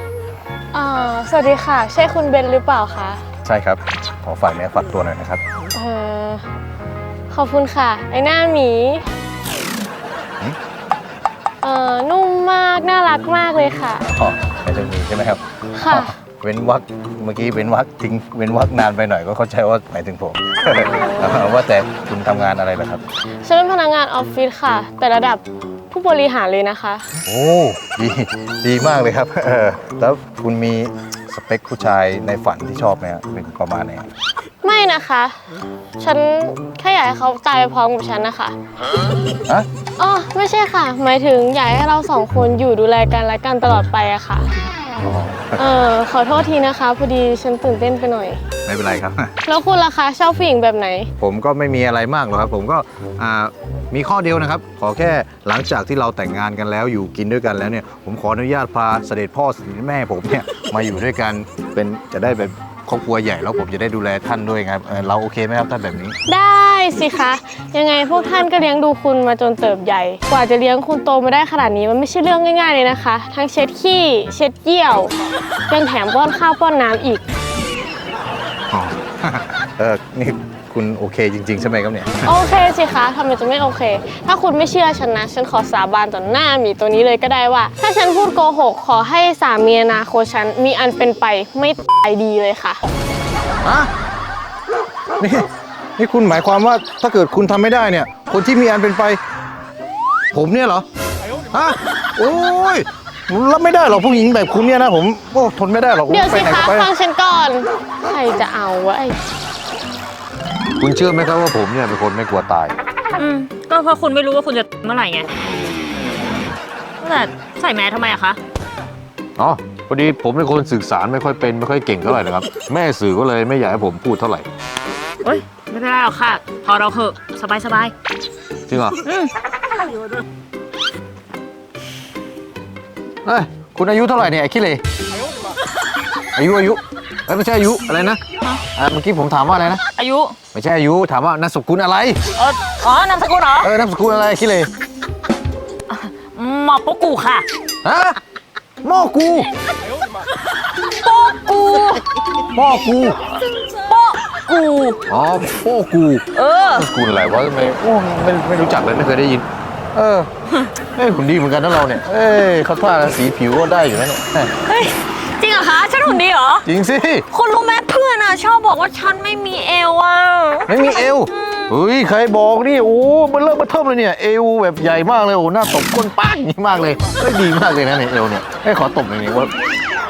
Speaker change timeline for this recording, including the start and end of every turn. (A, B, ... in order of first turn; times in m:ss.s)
0:00.7-0:03.2 A
0:03.4-0:05.4 B
0:05.7-0:06.4 A
0:07.3-0:09.1 A
0:11.6-0:14.1 A
0:14.1-0:23.0 B
0:15.7-0:16.1 A
0:20.6-0:21.4 A
0:23.4-0:27.1 A
0:27.3-0:34.1 B
0:34.6-0:35.4 A
0:36.0-0:38.6 A
0:40.0-0:44.5 A
0:45.0-0:45.6 B
0:45.6-0:48.4 A
0:48.6-0:49.3 B
0:49.4-0:51.1 A
0:51.2-1:06.2 B
1:06.3-1:15.2 A
1:15.7-1:17.2 A
1:18.7-1:22.3 B
1:22.2-1:32.8 A
1:33.6-1:33.9 B
1:35.2-1:39.2 B
1:40.3-1:40.9 B
1:41.5-1:46.9 B
1:46.1-1:49.2 A
1:50.8-1:52.7 B
1:53.2-1:55.3 C
1:57.0-1:58.4 C
1:59.4-2:04.5 B
2:05.2-2:07.9 C
2:08.7-2:09.0 B
2:09.0-2:09.3 C
2:13.2-2:14.8 B
2:16.4-2:18.2 B
2:18.8-2:19.8 B
2:20.0-2:20.4 C
2:20.5-2:22.2 B
2:22.4-2:23.8 C
2:23.6-2:24.7 B
2:25.9-2:27.4 C
2:27.8-2:28.2 B
2:28.8-2:29.5 B
2:31.0-2:32.0 C
2:32.5-2:33.2 B
2:33.9-2:35.0 C
2:35.1-2:40.3 B
2:36.3-2:36.9 C
2:40.9-2:44.5 B
2:44.7-2:46.7 C
2:46.6-2:47.3 B
2:47.3-2:51.7 C
2:50.7-2:59.5 B